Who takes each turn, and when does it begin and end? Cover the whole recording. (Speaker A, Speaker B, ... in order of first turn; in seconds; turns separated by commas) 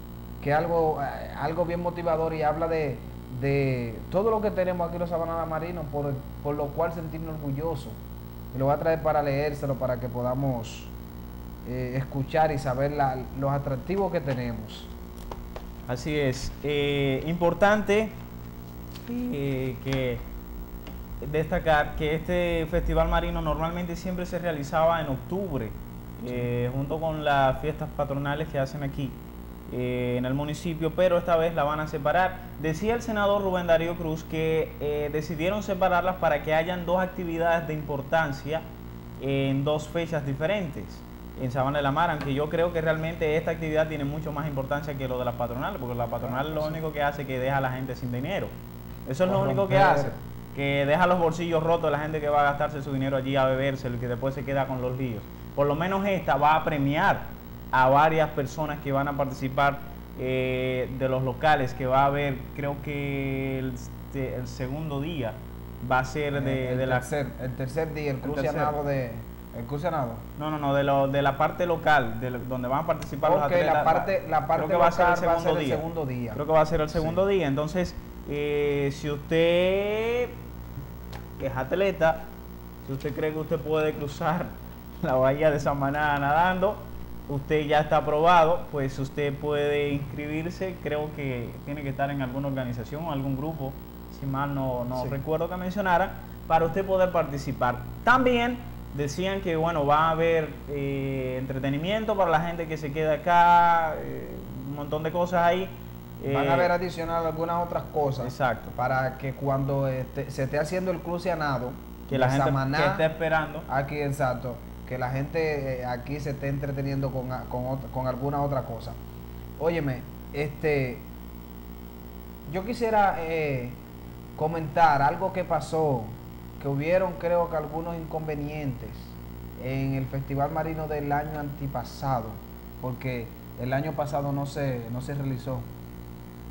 Speaker A: 0.4-8.0, Speaker A: 8.5-10.9, Speaker A: 11.7-14.9, Speaker B: 15.9-18.2, Speaker B: 19.1-20.2, Speaker B: 21.2-38.7, Speaker B: 39.2-48.5, Speaker A: 46.2-46.8, Speaker B: 49.1-67.1, Speaker A: 49.2-50.2, Speaker A: 66.3-70.2, Speaker B: 68.2-68.7, Speaker B: 70.4-80.4, Speaker A: 73.2-76.4, Speaker A: 76.9-77.2, Speaker B: 81.4-82.3, Speaker B: 82.8-106.8, Speaker A: 95.0-95.2, Speaker A: 106.3-113.1, Speaker B: 108.2-108.7, Speaker B: 112.1-113.7, Speaker A: 113.7-119.0, Speaker A: 119.6-121.1, Speaker A: 122.5-123.8, Speaker A: 124.4-135.7